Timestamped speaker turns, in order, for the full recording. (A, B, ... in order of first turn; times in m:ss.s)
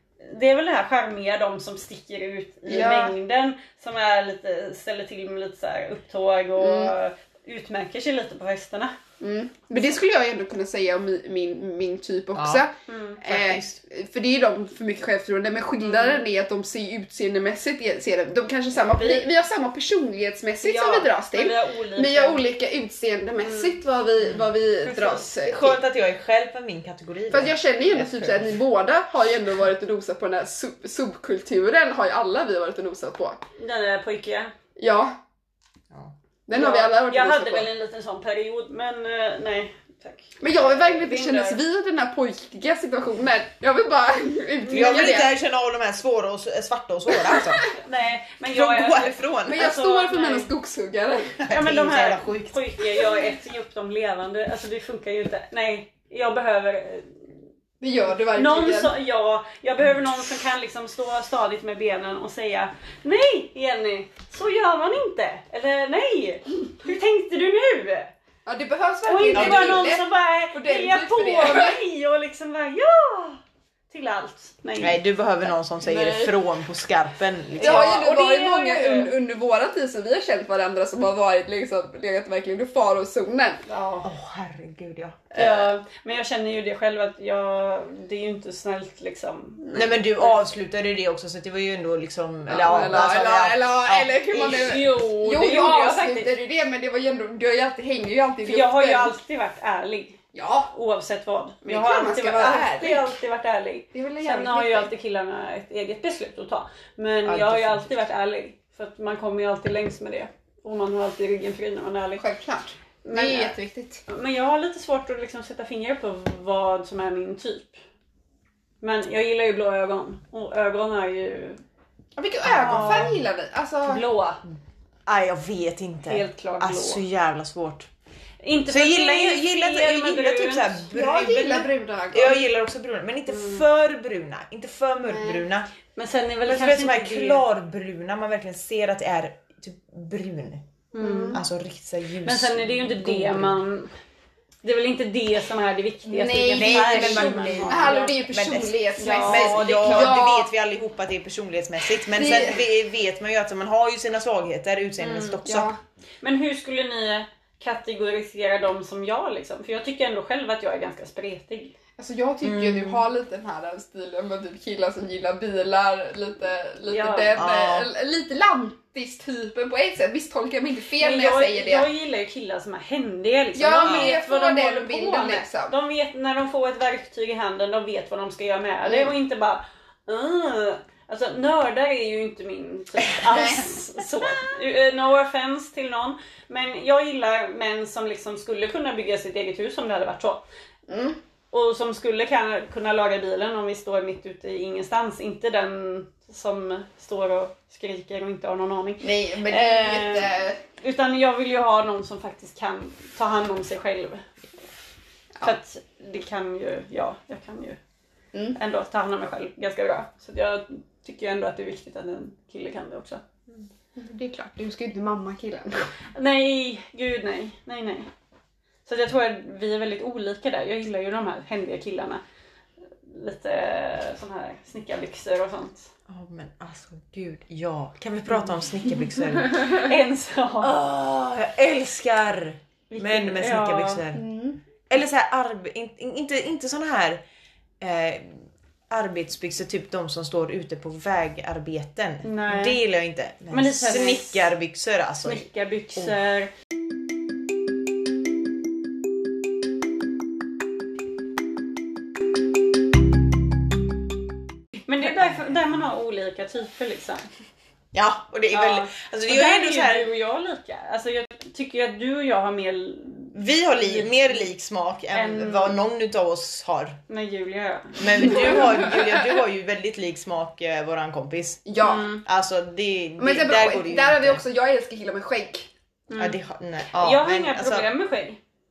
0:00.2-0:09.0 A
0:02.7-0:03.2 B
0:06.6-0:06.9 B
0:09.2-0:25.8 B
0:12.4-0:12.6 C
0:12.9-0:13.2 A
0:13.2-0:13.8 C
0:15.8-0:16.2 A
0:18.8-0:19.3 A
0:20.6-0:22.4 A
0:23.4-0:23.8 A
0:24.2-0:24.5 C
0:24.8-0:25.3 A
0:25.4-0:28.5 C
0:27.3-0:33.4 B
0:33.6-0:34.5 A
0:34.8-0:35.2 B
0:36.5-0:37.7 B
0:36.5-0:41.6 A
0:40.4-0:45.4 B
0:44.6-0:45.2 A
0:44.7-0:47.7 C
0:47.2-0:47.7 B
0:47.7-0:50.5 A
0:48.5-0:49.6 C
0:49.5-0:51.4 B
0:51.4-0:52.6 C
0:51.5-0:57.2 A
0:57.8-0:58.9 B
0:58.3-1:08.1 A
1:08.5-1:11.8 B
1:09.0-1:15.0 A
1:09.3-1:09.8 C
1:14.8-1:18.1 C
1:15.9-1:16.3 B
1:17.6-1:19.1 A
1:17.6-1:23.6 B
1:23.7-1:24.1 A
1:24.0-1:25.7 C
1:25.3-1:30.4 A
1:29.8-1:34.6 C
1:32.5-1:39.2 B
1:34.3-1:36.3 A
1:38.4-1:40.2 A
1:40.3-1:40.7 B
1:40.7-1:52.2 A
1:41.6-1:43.2 B
1:43.9-1:44.9 B
1:47.2-1:48.0 C
1:52.2-1:54.0 B
1:53.0-1:53.6 A
1:54.1-1:57.8 A
1:58.8-2:01.6 A
2:02.2-2:04.0 B
2:02.5-2:03.1 C
2:02.5-2:03.1 A
2:03.9-2:04.4 A
2:05.1-2:07.9 C
2:06.1-2:07.0 A
2:08.4-2:10.9 A
2:08.7-2:15.7 C
2:10.9-2:12.4 B
2:13.3-2:13.6 A
2:15.1-2:15.4 B
2:16.0-2:17.4 A
2:16.4-2:20.6 C
2:20.9-2:21.4 A
2:21.0-2:21.4 B
2:21.3-2:23.6 C
2:22.2-2:23.9 A
2:24.6-2:28.2 A
2:26.1-2:30.5 B
2:26.6-2:35.7 C
2:29.0-2:30.2 A
2:32.0-2:32.6 B
2:35.0-2:35.4 A
2:35.4-2:35.8 B
2:36.2-2:41.7 A
2:42.0-2:51.9 B
2:42.4-2:43.0 C
2:46.9-2:47.4 A
2:47.4-2:47.9 C
2:51.0-3:10.4 A
2:53.6-2:55.7 B
2:53.8-2:54.2 C
2:58.8-2:59.1 B
3:03.3-3:03.6 B
3:10.9-3:11.2 B
3:11.5-3:24.3 A
3:19.0-3:20.6 B
3:25.4-3:27.8 A
3:28.6-3:33.2 A
3:34.0-3:35.9 B
3:36.2-3:38.1 A
3:38.9-3:42.2 A
3:43.0-3:45.9 A
3:46.1-3:49.9 C
3:49.4-3:50.7 A
3:50.6-3:54.2 C
3:52.9-3:54.0 A
3:54.1-3:54.6 B
3:54.9-3:57.2 C
3:57.8-3:58.4 C
3:58.9-4:06.1 C
4:02.2-4:02.8 A
4:03.5-4:04.5 A
4:05.2-4:06.5 A
4:14.9-4:17.3 A
4:17.9-4:20.1 C
4:18.5-4:24.4 A
4:23.3-4:27.0 C
4:25.1-4:25.8 A
4:27.1-4:28.9 A
4:28.0-4:31.7 C
4:28.3-4:29.0 B
4:31.7-4:32.2 B
4:31.8-4:32.2 A
4:32.2-4:34.4 C
4:33.2-4:35.7 B
4:36.1-4:36.4 A
4:36.2-4:37.9 C
4:37.0-4:38.4 A